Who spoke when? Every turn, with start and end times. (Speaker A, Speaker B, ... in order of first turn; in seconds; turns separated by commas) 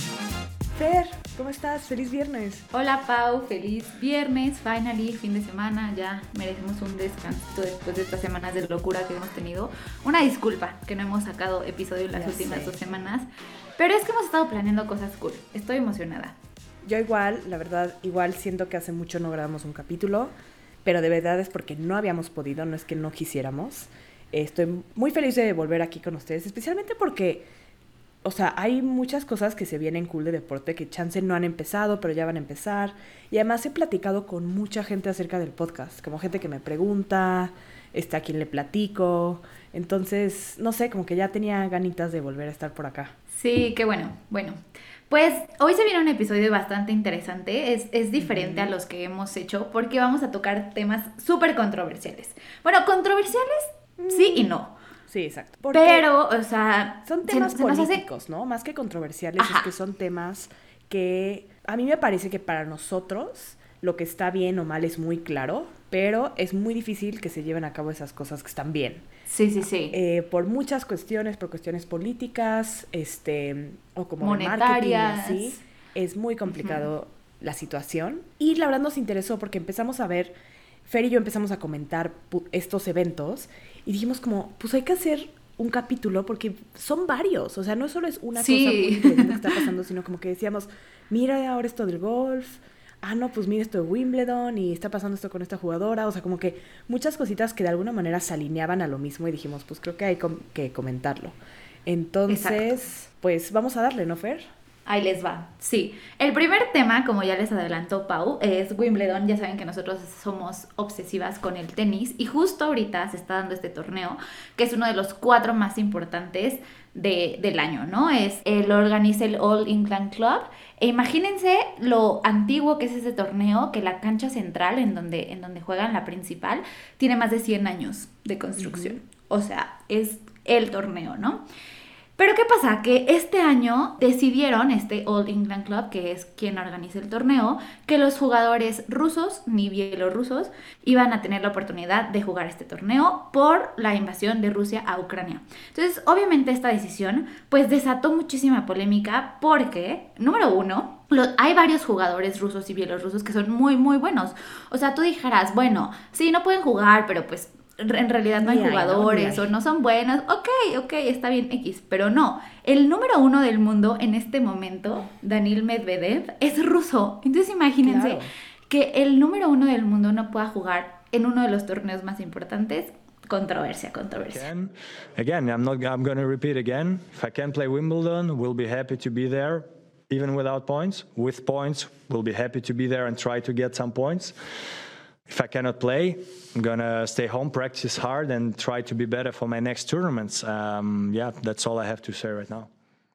Speaker A: 0.7-2.6, Speaker B: 2.7-13.3, Speaker A: 12.1-12.8, Speaker B: 13.8-16.3, Speaker A: 16.8-20.3, Speaker A: 20.8-27.5, Speaker A: 28.2-43.1, Speaker B: 43.3-44.6, Speaker B: 45.1-54.7, Speaker A: 48.2-48.7, Speaker A: 54.0-54.5, Speaker A: 55.1-56.1, Speaker B: 55.7-58.0, Speaker A: 57.0-69.0, Speaker B: 59.4-59.7, Speaker B: 69.3-69.9, Speaker A: 69.9-80.3, Speaker B: 74.2-75.6, Speaker B: 76.5-76.8, Speaker A: 80.8-104.5, Speaker B: 88.3-89.6, Speaker B: 102.3-102.8, Speaker B: 104.8-131.4, Speaker A: 128.6-129.0, Speaker B: 132.2-174.5, Speaker A: 158.4-159.5, Speaker A: 167.8-168.3, Speaker C: 174.3-184.3, Speaker C: 185.3-192.7